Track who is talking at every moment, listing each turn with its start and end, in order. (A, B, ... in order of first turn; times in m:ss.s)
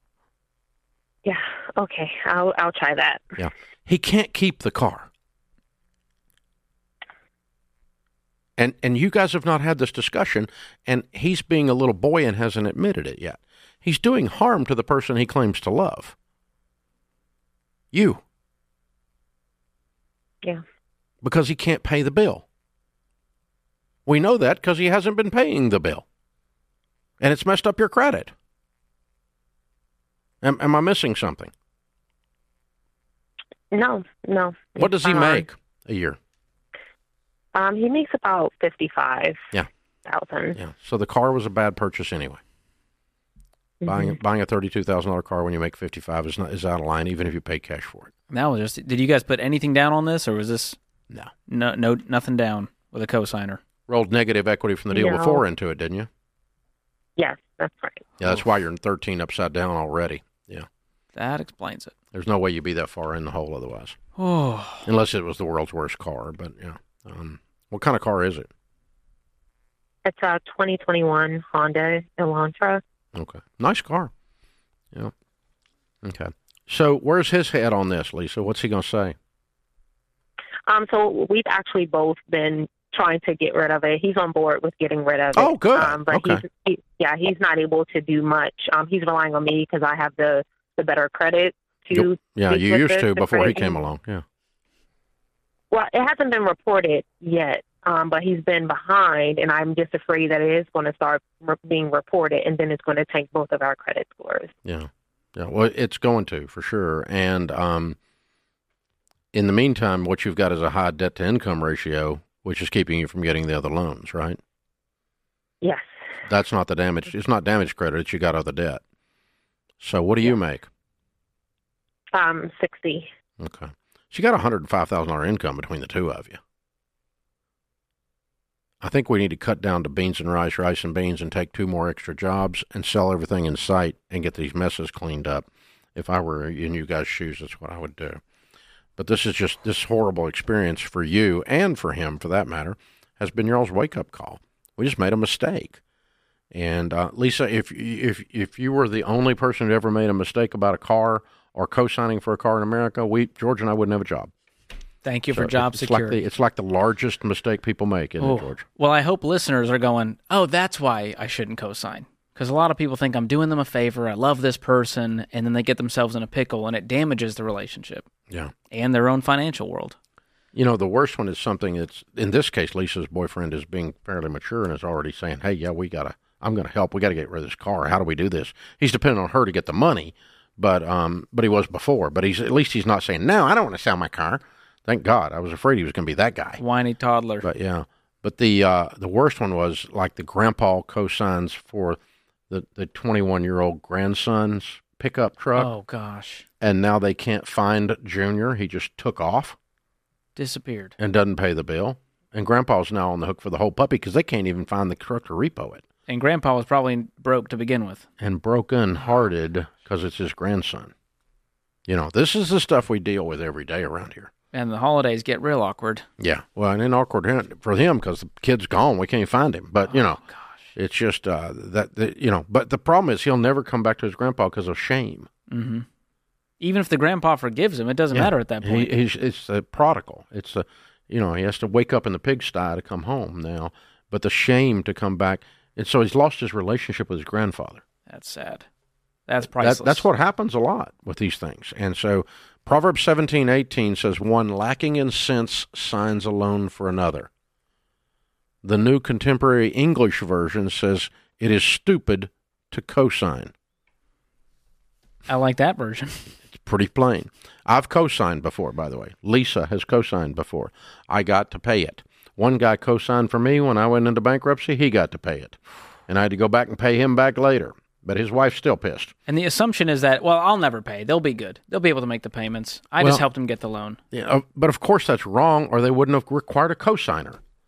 0:01.2-0:03.2 A
0:03.4-0:05.1 B
0:08.6-0:16.2 B
0:17.9-0:18.2 B
0:21.2-0:22.4 B
0:24.1-0:26.0 B
0:27.2-0:28.3 B
0:30.4-0:31.5 B
0:33.7-0:35.5 A
0:34.8-0:36.2 B
0:37.5-0:39.5 A
0:40.0-0:40.6 A
0:40.6-0:42.4 B
0:43.8-0:44.1 A
0:43.9-0:48.1 B
0:48.3-0:50.8 C
0:51.5-0:53.6 C
0:53.9-0:56.1 B
0:54.9-0:55.4 A
0:57.2-0:58.1 A
0:58.2-1:00.7 B
1:01.1-1:01.9 C
1:02.1-1:04.0 B
1:04.2-1:04.9 C
1:04.8-1:08.5 B
1:10.0-1:12.8 A
1:13.2-1:14.1 B
1:16.0-1:19.2 B
1:20.7-1:33.8 A
1:25.3-1:26.4 B
1:31.9-1:34.2 B
1:35.7-1:44.5 A
1:44.6-1:48.0 B
1:49.3-1:54.4 B
1:55.6-1:55.9 A
1:56.3-1:58.8 B
1:59.8-2:00.7 B
2:02.1-2:03.1 A
2:03.4-2:06.4 B
2:08.8-2:18.2 B
2:19.0-2:25.8 B
2:26.5-2:34.3 B
2:35.0-2:36.2 C
2:35.3-2:38.6 B
2:38.2-2:48.1 C
2:48.7-2:50.0 C
2:50.5-3:06.6 B
3:06.6-3:07.5 C
3:07.4-3:12.0 B
3:12.5-3:15.7 B
3:15.6-3:16.5 C
3:16.6-3:19.6 B
3:20.4-3:21.0 C
3:21.0-3:25.8 B
3:26.1-3:28.1 C
3:28.2-3:30.9 B
3:31.9-3:34.3 B
3:34.5-3:36.0 C
3:36.2-3:40.2 B
3:39.9-3:40.6 C
3:40.8-3:45.3 B
3:45.5-3:45.9 C
3:46.6-3:48.9 C
3:48.1-3:57.8 B
3:58.1-3:58.7 C
3:59.3-4:00.1 C
3:59.6-4:07.3 B
4:08.6-4:13.5 B
4:15.3-4:16.3 C
4:16.5-4:29.1 B
4:29.3-4:34.0 C
4:33.0-4:33.2 B
4:34.1-4:37.4 B